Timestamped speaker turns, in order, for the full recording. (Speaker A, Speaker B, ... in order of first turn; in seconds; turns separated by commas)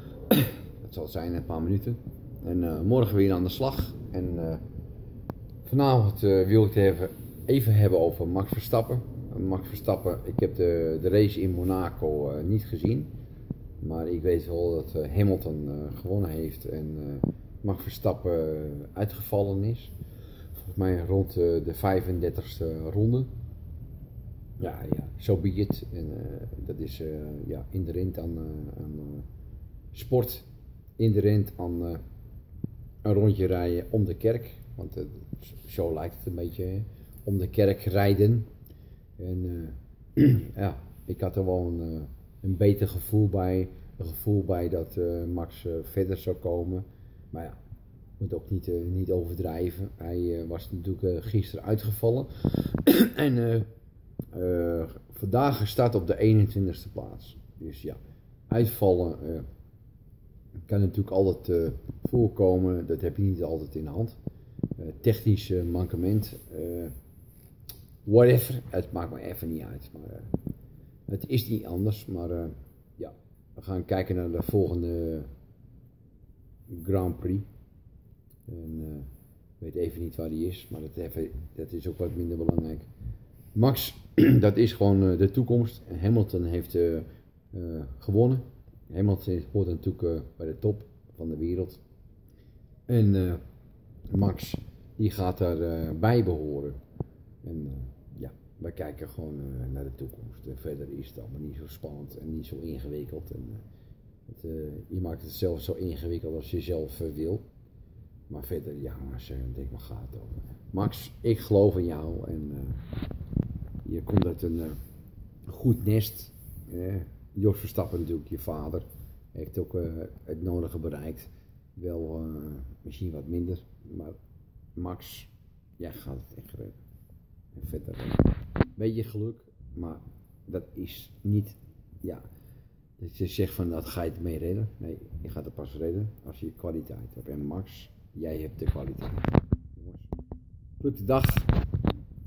Speaker A: 0.3-4.6, Speaker A: 5.6-13.1, Speaker A: 13.8-19.9, Speaker A: 20.7-23.3, Speaker A: 24.6-29.2, Speaker A: 29.9-30.4, Speaker A: 31.0-32.0, Speaker A: 33.0-38.5, Speaker A: 39.2-47.6, Speaker A: 48.2-53.7, Speaker A: 54.3-58.0, Speaker A: 58.5-59.5, Speaker A: 60.7-64.2, Speaker A: 64.8-66.9, Speaker A: 68.0-70.3, Speaker A: 71.1-75.3, Speaker A: 76.7-77.5, Speaker A: 78.5-79.1, Speaker A: 79.6-82.9, Speaker A: 83.5-91.8, Speaker A: 92.9-93.4, Speaker A: 94.1-96.8, Speaker A: 97.4-103.6, Speaker A: 104.3-107.4, Speaker A: 108.3-112.8, Speaker A: 113.8-114.8, Speaker A: 115.5-124.2, Speaker A: 124.8-126.8, Speaker A: 127.5-128.2, Speaker A: 128.8-132.2, Speaker A: 133.0-140.1, Speaker A: 140.8-141.5